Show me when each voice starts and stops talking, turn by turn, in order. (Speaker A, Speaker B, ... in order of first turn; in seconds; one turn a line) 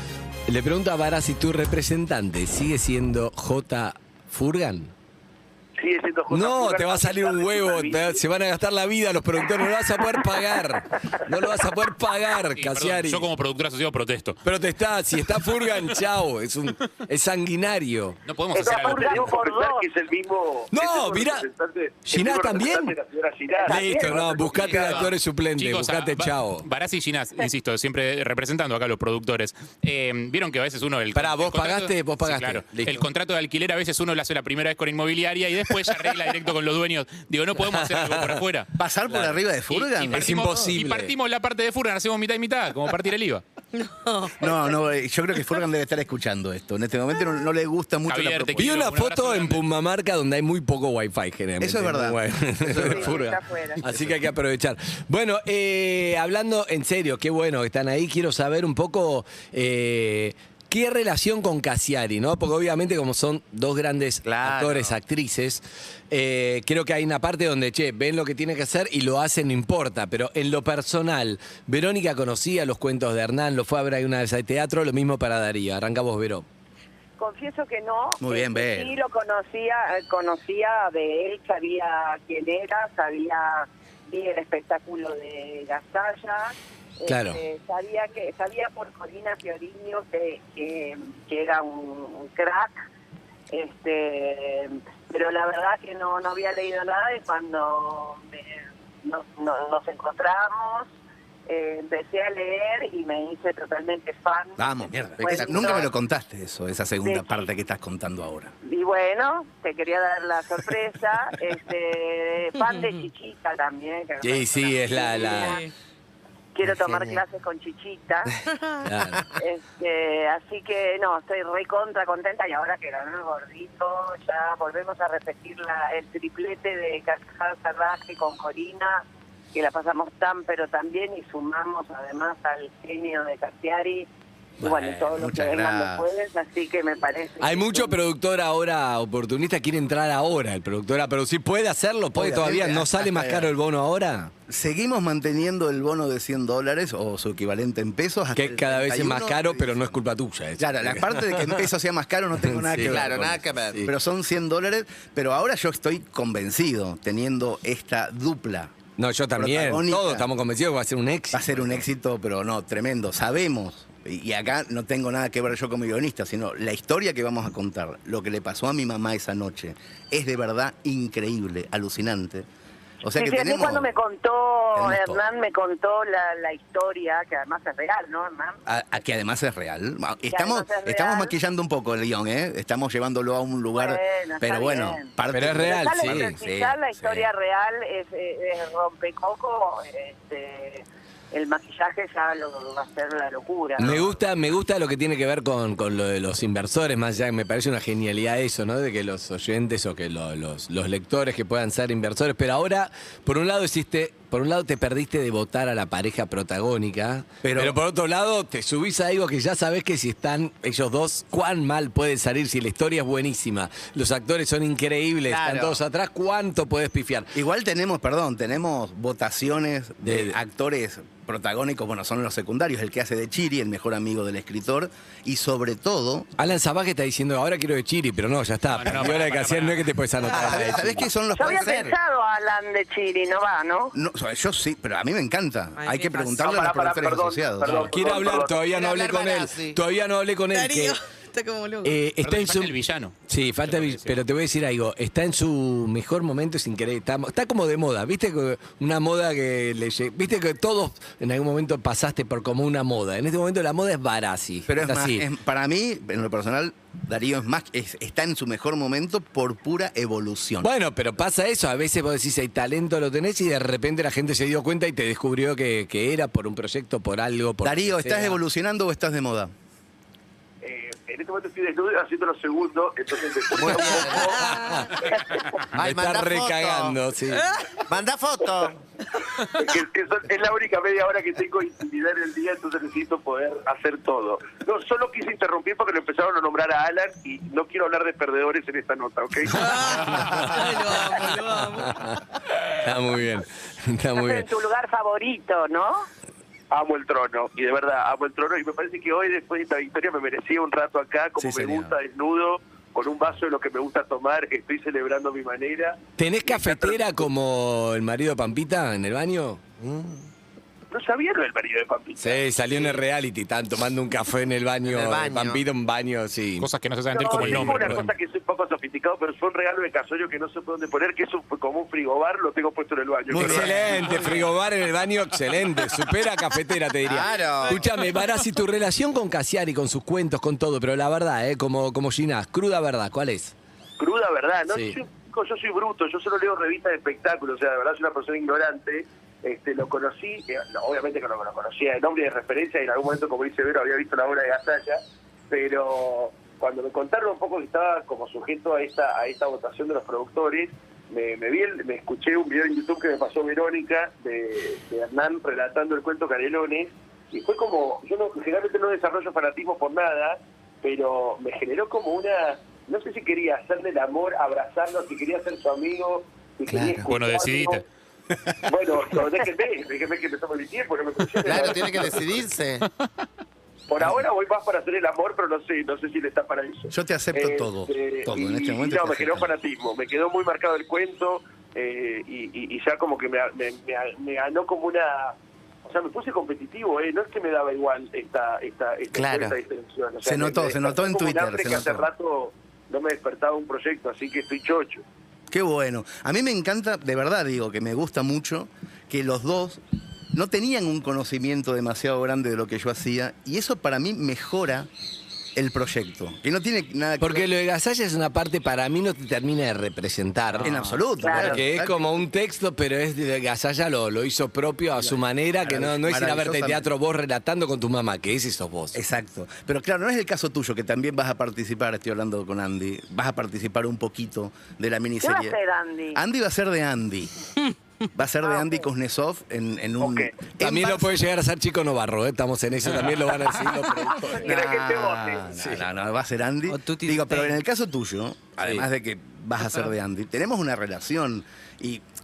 Speaker A: 0.5-4.9
Speaker B: 5.8-8.2
Speaker A: 6.3-13.3
Speaker C: 12.6-14.4
Speaker A: 14.4-18.2
Speaker C: 18.3-19.3
Speaker B: 18.5-24.8
Speaker D: 18.6-19.9
Speaker A: 20.7-21.5
Speaker A: 22.1-23.0
Speaker D: 23.5-24.6
Speaker A: 23.6-26.7
Speaker C: 24.6-38.7
Speaker A: 31.1-33.1
Speaker A: 37.6-38.4
Speaker E: 38.8-40.3
Speaker A: 39.1-39.4
Speaker C: 39.7-43.4
Speaker A: 40.1-41.1
Speaker F: 43.7-44.8
Speaker E: 44.4-48.7
Speaker C: 48.1-49.6
Speaker A: 48.6-76.5
Speaker E: 51.6-53.2
Speaker D: 52.8-53.8
Speaker E: 53.9-54.2
Speaker G: 64.2-65.0
Speaker D: 77.2-92.8
Speaker E: 78.2-79.0
Speaker A: 87.1-87.4
Speaker D: 93.5-100.9
Speaker D: 101.5-104.6
Speaker E: 104.6-108.5
Speaker D: 105.2-105.9
Speaker G: 105.2-105.9
Speaker D: 107.0-107.5
Speaker D: 108.7-115.6
Speaker F: 112.6-113.1
Speaker A: 114.2-115.6
Speaker F: 115.1-115.7
Speaker D: 116.5-118.3
Speaker F: 118.5-118.9
Speaker A: 118.8-119.3
Speaker D: 119.3-134.1
Speaker D: 134.6-138.0
Speaker E: 134.6-136.1
Speaker A: 137.4-144.3
Speaker E: 142.1-143.5
Speaker E: 144.5-150.0
Speaker A: 148.3-151.6
Speaker E: 150.6-158.8
Speaker A: 152.4-153.1
Speaker G: 152.9-153.9
Speaker A: 159.0-161.8
Speaker E: 159.3-160.3
Speaker E: 161.3-172.5
Speaker E: 173.0-173.9
Speaker D: 173.2-178.6
Speaker E: 174.8-175.2
Speaker E: 178.7-187.3
Speaker D: 180.3-181.3
Speaker D: 183.7-193.9
Speaker A: 185.3-186.3
Speaker A: 193.8-217.3
Speaker E: 207.4-207.8
Speaker G: 215.3-215.8
Speaker E: 217.3-226.3
Speaker A: 220.0-220.4
Speaker A: 226.4-231.1
Speaker C: 228.7-229.9
Speaker E: 230.3-231.9
Speaker D: 231.4-233.9
Speaker G: 231.4-231.9
Speaker E: 233.9-237.9
Speaker F: 235.8-236.7
Speaker B: 236.4-238.6
Speaker A: 237.8-241.0
Speaker G: 238.2-239.8
Speaker F: 240.5-242.0
Speaker A: 241.8-242.7
Speaker C: 242.2-244.2
Speaker A: 243.3-255.3
Speaker E: 254.7-260.7
Speaker A: 260.6-268.4
Speaker E: 267.6-269.5
Speaker B: 270.6-275.1
Speaker G: 273.6-274.2
Speaker A: 274.2-274.9
Speaker F: 274.5-274.9
Speaker G: 275.6-277.0
Speaker A: 275.8-277.5
Speaker G: 277.8-278.8
Speaker B: 279.4-289.9
Speaker F: 289.5-292.1
Speaker A: 290.0-291.3
Speaker A: 291.8-294.4
Speaker D: 294.1-296.1
Speaker B: 296.7-307.2
Speaker E: 301.4-301.9
Speaker A: 306.2-309.8
Speaker B: 310.9-312.5
Speaker A: 312.2-316.7
Speaker G: 314.9-315.6
Speaker C: 316.6-318.1
Speaker B: 317.1-324.0
Speaker A: 317.4-318.1
Speaker E: 323.3-324.1
Speaker A: 323.3-333.6
Speaker G: 324.0-324.3
Speaker G: 327.1-327.8
Speaker F: 327.6-328.5
Speaker B: 334.0-367.8
Speaker A: 334.7-335.0
Speaker G: 366.7-367.1
Speaker C: 367.1-367.8
Speaker B: 368.7-372.2
Speaker G: 371.4-372.9
Speaker B: 373.9-395.0
Speaker E: 376.9-379.5
Speaker G: 389.1-389.6
Speaker E: 390.2-392.1
Speaker E: 395.5-399.8
Speaker E: 400.3-404.9
Speaker E: 405.6-407.5
Speaker A: 407.2-410.7
Speaker E: 410.6-412.0
Speaker D: 411.2-411.6
Speaker A: 411.2-419.0
Speaker E: 415.0-416.9
Speaker E: 418.9-425.6
Speaker D: 425.2-426.2
Speaker E: 426.1-427.4
Speaker E: 428.1-431.2
Speaker D: 428.4-428.9
Speaker B: 430.0-430.3
Speaker A: 430.6-434.5
Speaker E: 434.3-442.0
Speaker B: 434.4-435.5
Speaker A: 435.6-435.9
Speaker F: 436.7-437.6
Speaker A: 438.6-438.9